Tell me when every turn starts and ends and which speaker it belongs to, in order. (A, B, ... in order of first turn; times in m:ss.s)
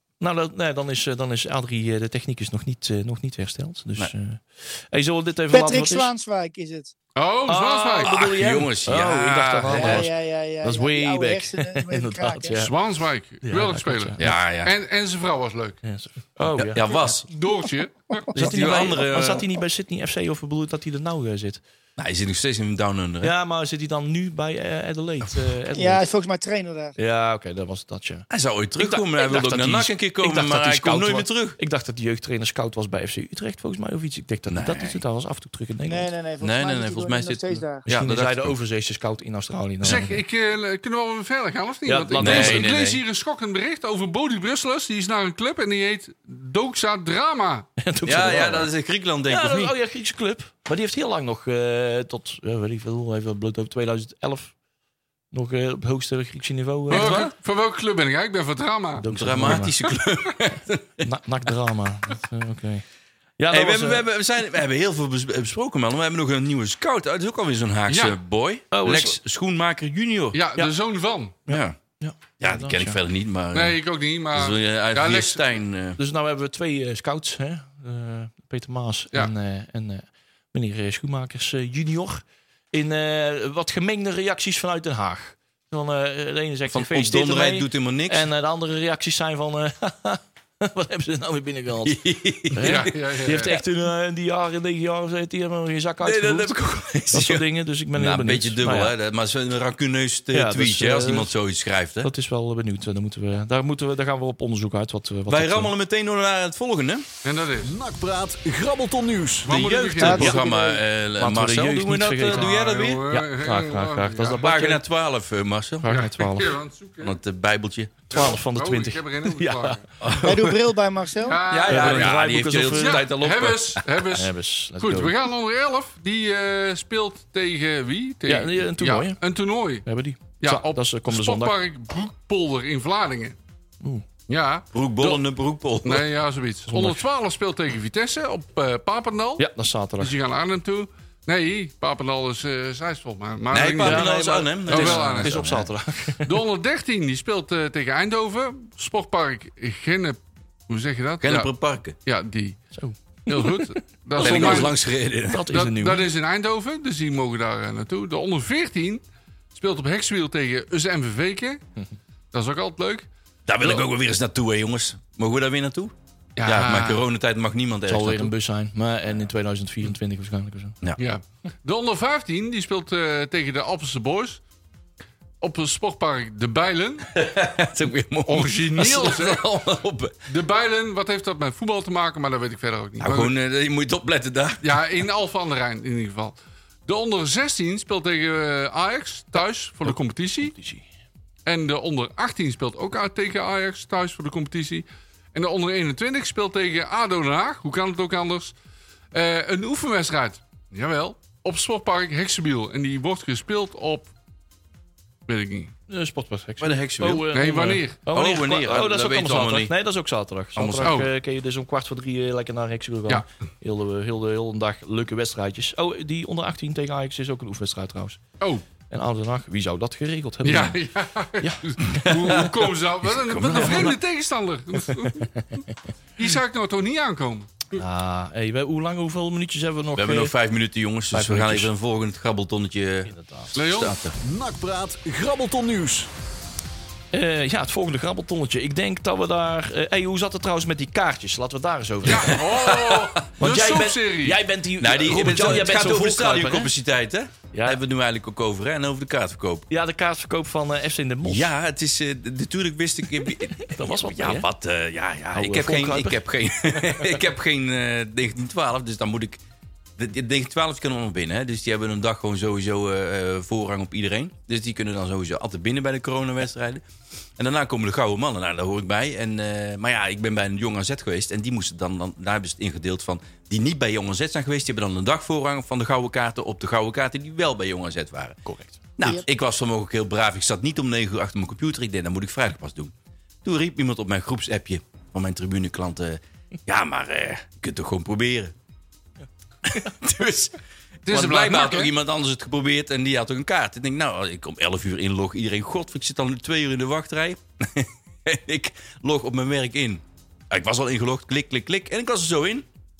0:00.2-0:06.1 A
0:05.5-0:06.9 B
0:07.2-0:08.2 C
0:07.5-0:12.7 A
0:08.0-0:10.1 D
0:09.7-0:12.6 B
0:12.5-0:15.8 C
0:13.4-0:14.4 A
0:14.2-0:14.7 D
0:15.8-0:16.9 A
0:16.6-0:17.3 D
0:17.0-0:18.3 C
0:18.3-0:19.4 D
0:18.3-0:21.6 A
0:22.0-0:23.3 D
0:23.2-0:26.0 A
0:25.7-0:26.9 B
0:27.0-0:28.3 A
0:28.3-0:31.6 D
0:28.8-0:36.1 A
0:34.5-0:35.0 D
0:35.9-0:37.8 B
0:36.4-0:38.6 D
0:37.9-0:40.2 A
0:39.8-0:47.7 C
0:41.8-0:43.0 A
0:42.2-0:42.7 D
0:47.8-0:48.7 A
0:48.0-0:49.7 D
0:49.3-0:54.5 A
0:55.3-0:57.2 A
0:56.9-0:57.3 D
0:56.9-0:59.6 C
0:59.0-0:59.7 A
0:59.1-1:01.1 D
1:01.0-1:02.8 A
1:03.4-1:04.1 A
1:03.5-1:10.4 D
1:07.9-1:08.2 C
1:08.7-1:09.2 A
1:10.3-1:11.4 C
1:11.5-1:11.8 D
1:11.5-1:13.0 A
1:12.4-1:13.8 D
1:13.5-1:15.4 C
1:14.3-1:16.0 D
1:16.0-1:36.6 A
1:26.7-1:28.3 D
1:31.8-1:32.8 D
1:32.6-1:33.6 C
1:36.0-1:42.1 D
1:37.1-1:38.9 A
1:40.3-1:41.3 A
1:42.0-1:45.7 A
1:45.3-1:47.0 D
1:47.2-1:47.7 C
1:47.6-1:49.6 E
1:49.4-1:50.4 C
1:49.4-1:53.0 D
1:50.0-1:50.8 B
1:50.0-1:50.3 A
1:51.2-1:54.8 A
1:52.3-1:54.5 C
1:54.4-1:55.9 D
1:55.8-1:56.6 A
1:55.9-1:57.2 C
1:57.0-1:58.0 D
1:58.1-2:00.4 A
1:58.1-1:59.9 C
2:00.0-2:00.6 D
2:00.2-2:01.4 B
2:01.2-2:02.2 C
2:01.4-2:03.8 D
2:01.7-2:03.0 A
2:02.7-2:09.8 C
2:04.0-2:05.2 A
2:08.3-2:09.2 A
2:09.8-2:11.5 A
2:10.4-2:13.4 C
2:14.3-2:15.2 C
2:14.7-2:16.1 D
2:15.8-2:19.4 C
2:16.7-2:17.0 A
2:19.4-2:20.2 A
2:20.0-2:25.5 C
2:23.5-2:25.6 D
2:23.8-2:26.3 A
2:26.2-2:30.2 C
2:30.7-2:31.5 C
2:31.2-2:32.0 D
2:32.0-2:32.6 C
2:32.7-2:34.8 A
2:33.3-2:34.7 C
2:34.2-2:35.5 D
2:35.3-2:36.1 A
2:35.5-2:39.0 C
2:39.5-2:41.6 C
2:42.3-2:43.1 C
2:43.5-2:48.3 D
2:46.4-2:47.0 C
2:47.9-2:50.8 A
2:51.0-2:54.4 C
2:55.4-2:57.1 C
2:57.1-3:00.1 D
2:58.3-2:59.4 C
3:00.3-3:03.3 C
3:03.0-3:04.8 D
3:04.6-3:10.5 C
3:09.9-3:10.8 A
3:11.4-3:18.5 C
3:19.1-3:24.1 C
3:25.3-3:25.7 C
3:25.9-3:38.2 A
3:26.6-3:27.3 D
3:27.3-3:28.0 C
3:28.1-3:29.7 D
3:30.5-3:31.0 D
3:30.8-3:31.1 C
3:38.9-3:40.8 A
3:40.4-3:45.3 C
3:41.4-3:42.6 A
3:43.2-3:44.0 D
3:43.3-3:44.0 A
3:44.9-3:45.6 A
3:46.2-3:47.8 C
3:47.8-3:50.3 A
3:49.9-3:54.1 D
3:51.1-3:51.7 A
3:53.1-3:53.5 A
3:53.5-3:54.0 C
3:54.2-3:56.1 E
3:57.1-4:02.4 A
4:02.0-4:04.4 C
4:02.1-4:03.2 D
4:03.4-4:06.7 A
4:04.8-4:09.7 D
4:07.5-4:07.8 A
4:09.7-4:11.5 A
4:11.2-4:19.4 D
4:13.4-4:14.5 A
4:15.3-4:17.2 A
4:20.0-4:26.8 D
4:27.4-4:38.4 D
4:38.4-4:38.8 A
4:39.0-4:42.9 D
4:43.4-4:48.5 D
4:49.6-5:02.7 D
4:51.0-4:51.9 C